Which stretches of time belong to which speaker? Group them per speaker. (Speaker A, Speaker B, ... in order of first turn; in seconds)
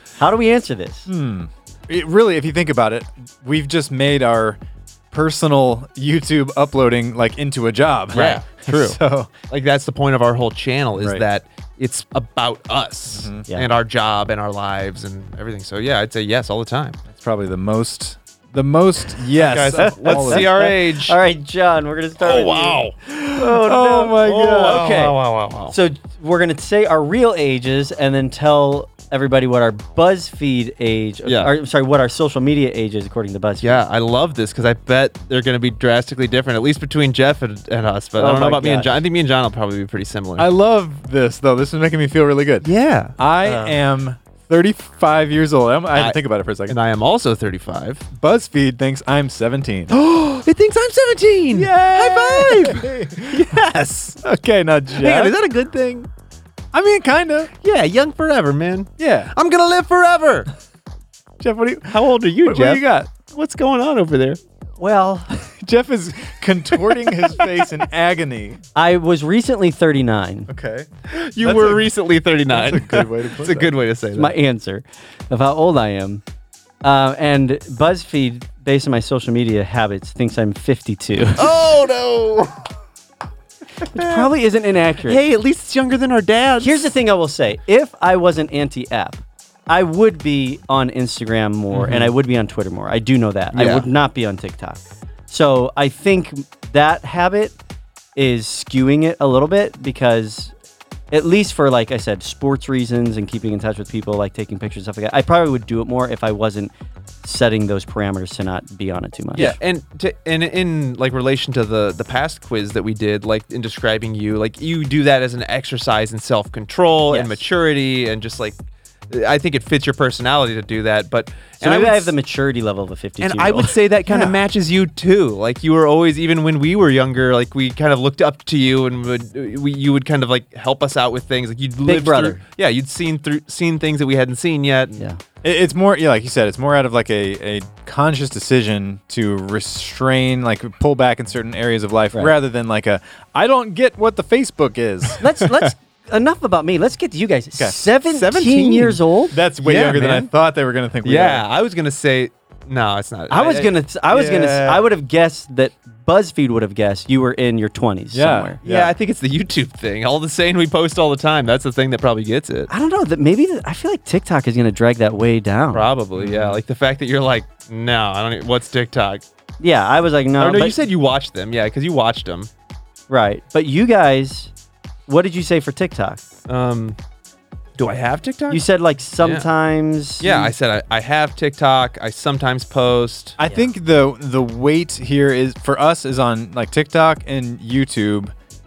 Speaker A: 0.2-1.1, 19.8-25.2, 25.7-33.8, 38.2-39.0, 43.5-43.7, 64.8-65.3, 68.7-70.5, 74.1-76.2, 76.8-81.5, 83.8-85.2, 86.6-97.6, 98.2-100.5, 101.1-106.7, 107.2-109.6, 117.1-117.4, 121.6-124.4, 131.8-132.4, 145.2-149.4, 153.3-158.6, 162.7-165.9, 169.6-170.8, 173.1-174.5, 175.1-176.2, 178.5-180.5, 183.4-183.7
Speaker B: 1.1-9.3, 11.0-11.2, 13.1-13.5, 17.1-20.5, 23.1-24.9, 40.4-46.8, 48.1-49.9, 51.5-53.5, 54.2-55.3, 56.7-57.5, 59.0-59.3, 61.4-63.1, 65.3-68.6, 70.5-71.9, 72.5-73.7, 135.4-145.2, 149.3-151.4, 158.1-158.9, 166.2-166.6, 183.4-188.3
Speaker C: 8.1-17.0, 19.3-21.2, 22.2-22.9, 24.2-25.7, 31.3-31.5, 33.6-40.5, 42.6-43.1, 45.9-48.0, 49.9-54.2, 55.0-56.1, 57.6-60.5, 61.9-64.4, 71.1-74.3, 81.4-82.7, 83.8-84.3, 85.0-86.8, 91.7-92.1, 93.5-93.9, 109.4-118.6, 119.1-122.1, 123.2-135.0, 148.1-149.0, 149.6-150.3, 151.0-154.8, 158.6-162.7, 165.7-169.2, 170.4-172.5, 176.5-177.0, 177.8-178.6, 179.2-179.5, 180.2-183.4